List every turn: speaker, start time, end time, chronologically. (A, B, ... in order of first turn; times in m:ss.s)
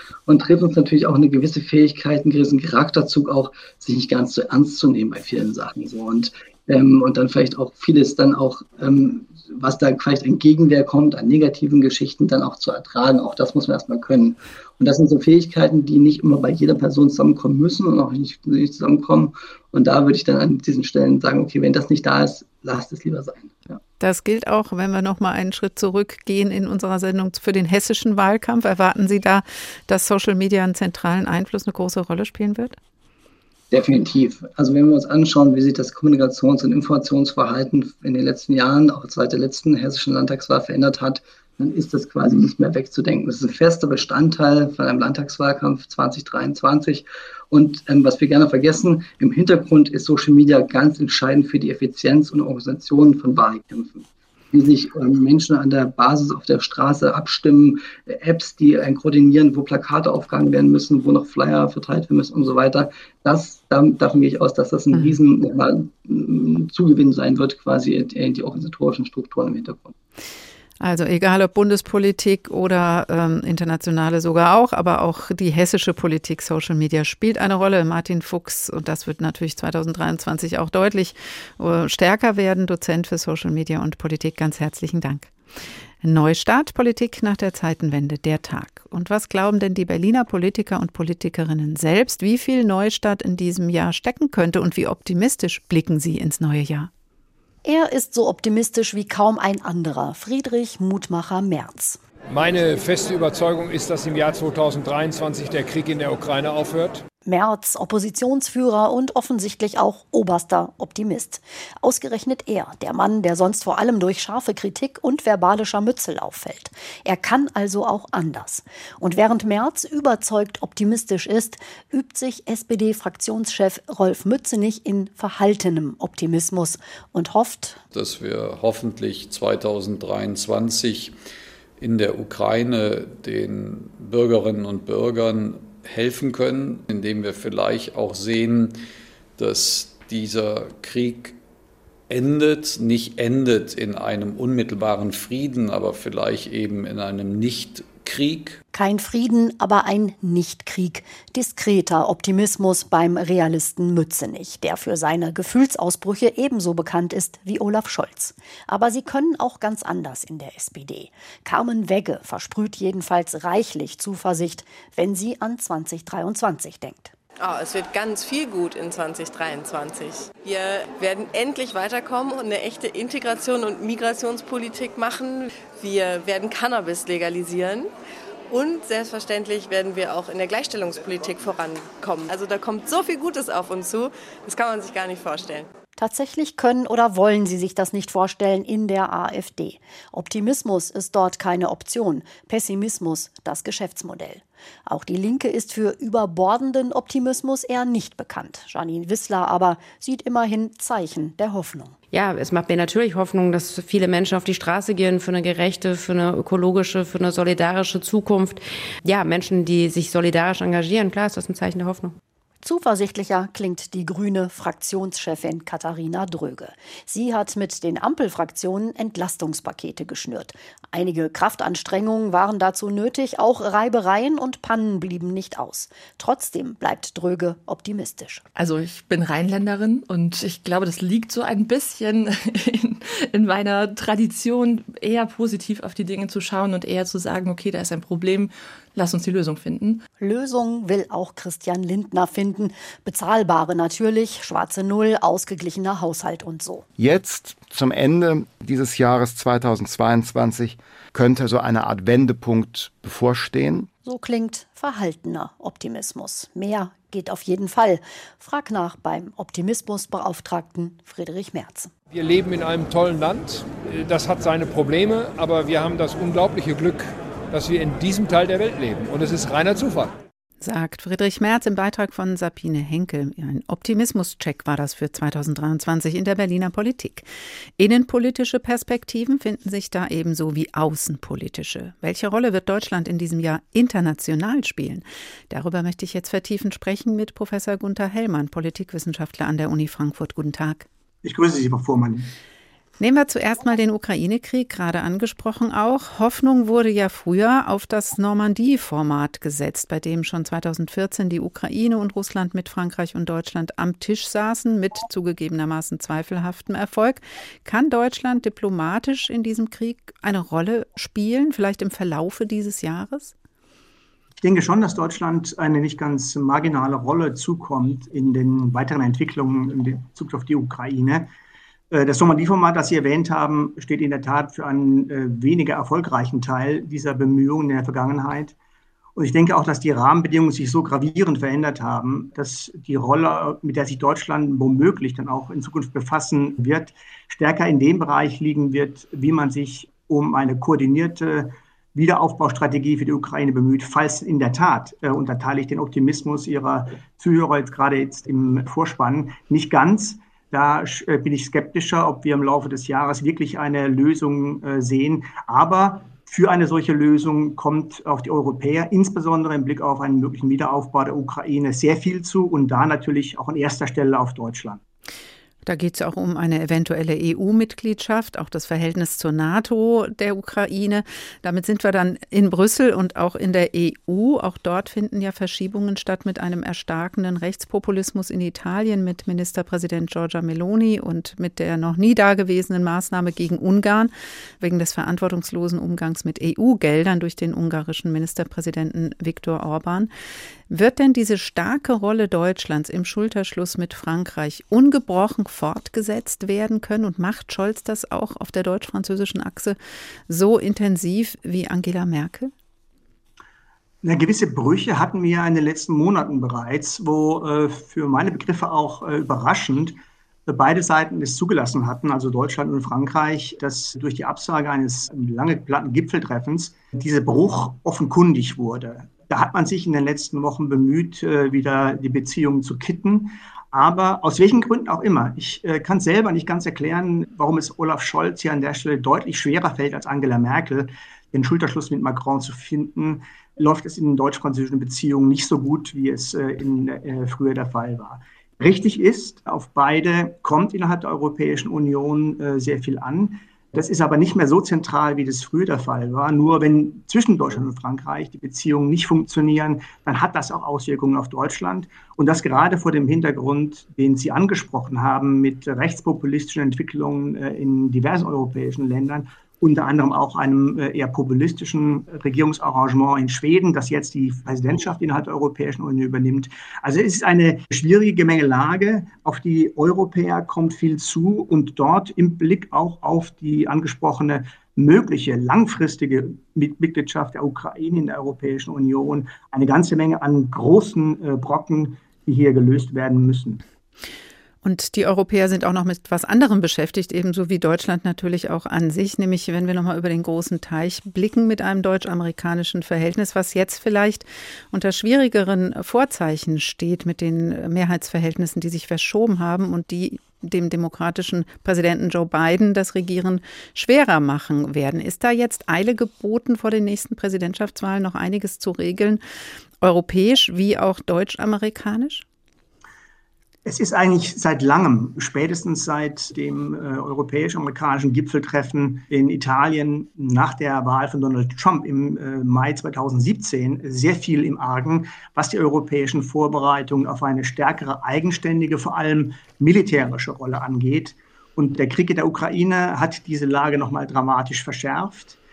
0:00.3-0:23.8 A
0:24.0-0:32.8 B
0:33.7-1:09.9 A
1:04.9-1:05.2 B
1:10.8-1:25.3 B
1:26.0-1:36.9 B
1:37.6-1:42.0 C
1:42.3-1:47.0 D
1:47.2-2:07.8 C
2:07.9-2:11.1 E
2:11.8-2:18.8 E
2:19.4-2:21.4 E
2:22.1-2:28.6 E
2:28.7-2:47.1 C
2:47.4-2:57.9 F
2:58.5-3:05.7 F
3:06.0-3:22.0 C
3:22.1-3:32.1 G
3:32.6-3:48.4 C
3:48.6-3:52.2 H
3:53.3-4:00.0 H
4:00.2-4:06.8 C
4:07.0-4:13.9 I
4:14.0-4:21.9 C
4:22.1-4:30.2 D
4:30.6-4:37.2 B
4:37.8-4:50.8 B
4:51.2-4:52.3 J
4:53.0-5:13.3 B
5:14.4-5:21.3 J
5:21.9-5:28.5 J
5:29.2-6:04.8 J
6:05.6-6:30.1 B
6:30.7-6:39.8 B
6:40.3-6:42.5 B
6:44.0-8:03.6 J
8:04.6-8:29.2 B
8:29.8-8:32.2 B
8:33.6-8:55.4 J